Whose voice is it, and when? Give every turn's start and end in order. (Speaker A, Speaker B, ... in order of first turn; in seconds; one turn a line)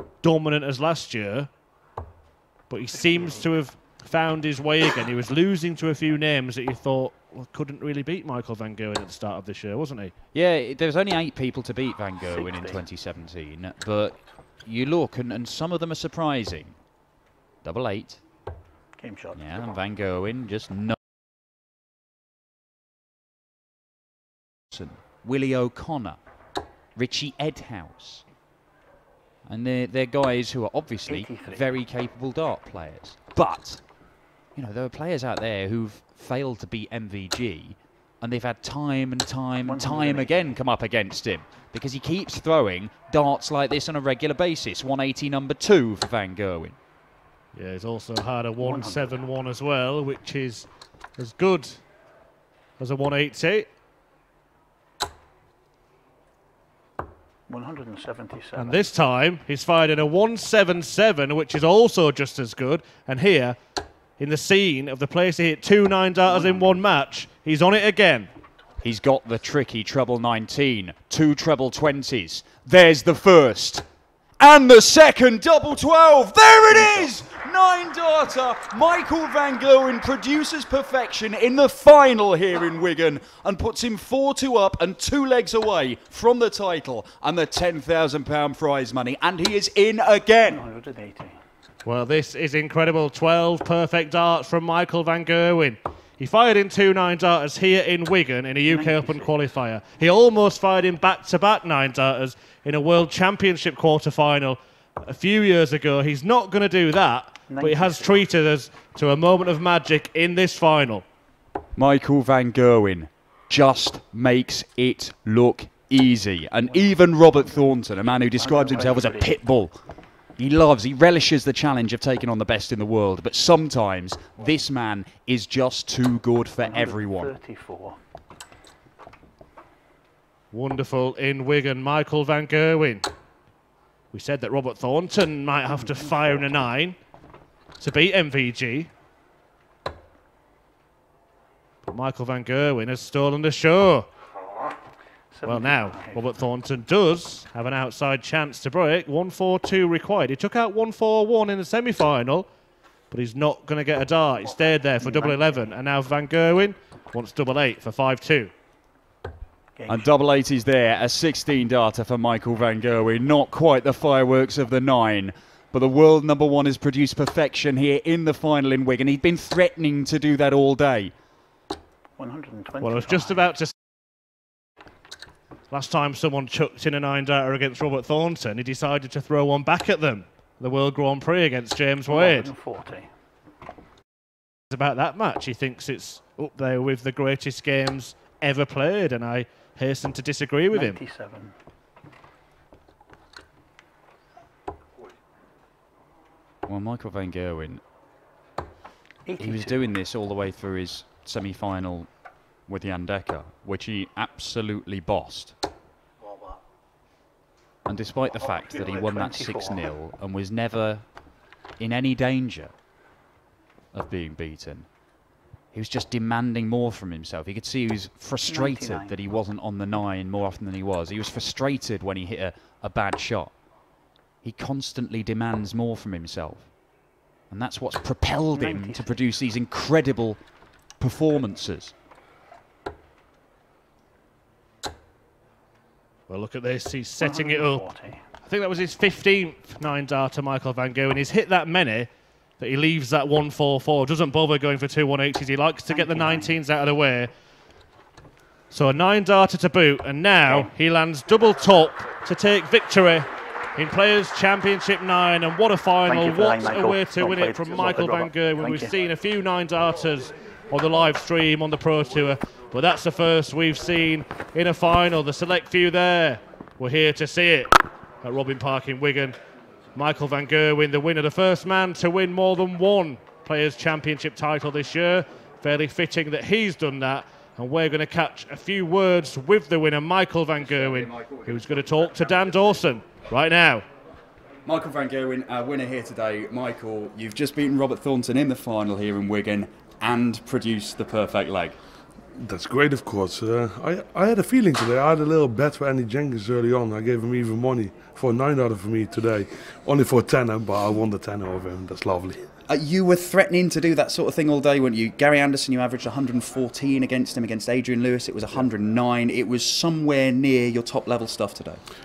Speaker A: 0.2-1.5
Speaker A: 2.7-10.1
Speaker B: 3.1-3.5
Speaker C: 10.3-16.8
Speaker B: 12.2-12.8
Speaker C: 17.6-18.2
Speaker B: 19.0-19.6
Speaker C: 19.3-21.0
Speaker C: 24.7-26.2
Speaker C: 26.9-28.2
Speaker C: 29.4-33.8
Speaker B: 31.1-31.7
Speaker C: 34.5-46.8
Speaker B: 39.6-40.5
Speaker A: 47.5-51.8
Speaker B: 48.6-49.2
Speaker A: 52.8-53.7
Speaker B: 57.5-58.9
Speaker A: 58.6-63.6
Speaker A: 64.2-68.3
Speaker C: 68.8-73.8
Speaker C: 74.4-90.6
Speaker B: 90.4-91.4
Speaker A: 91.8-111.0
Speaker B: 98.7-99.3
Speaker B: 107.5-108.2
Speaker C: 111.8-119.8
Speaker B: 118.2-119.4
Speaker C: 120.4-127.3
Speaker B: 126.6-128.0
Speaker A: 130.5-133.1
Speaker A: 134.1-136.9
Speaker B: 135.7-136.6
Speaker A: 137.8-138.9
Speaker A: 141.8-144.1
Speaker B: 145.3-146.2
Speaker A: 145.4-152.5
Speaker A: 153.1-158.5
Speaker B: 155.0-155.7
Speaker B: 159.8-160.1
Speaker C: 159.9-171.1
Speaker B: 172.2-173.5
Speaker A: 172.8-173.7
Speaker A: 175.7-182.5
Speaker B: 182.1-183.1
Speaker A: 184.7-191.0
Speaker B: 190.7-191.5
Speaker C: 196.7-197.8
Speaker B: 199.2-199.9
Speaker C: 199.4-202.1
Speaker C: 202.7-205.6
Speaker C: 207.8-211.0
Speaker B: 208.7-209.9
Speaker C: 211.8-212.7
Speaker C: 213.9-214.9
Speaker C: 215.7-223.5
Speaker B: 218.4-219.2
Speaker C: 224.4-226.7
Speaker C: 227.5-230.4
Speaker B: 228.5-229.2
Speaker C: 231.0-231.9
Speaker A: 236.3-237.8
Speaker B: 237.2-238.2
Speaker A: 238.4-247.3
Speaker B: 245.9-246.6
Speaker A: 248.7-269.4
Speaker B: 256.1-258.9
Speaker A: 269.9-283.9
Speaker C: 280.6-281.8
Speaker C: 284.6-291.8
Speaker D: 292.4-302.5
Speaker C: 302.7-311.8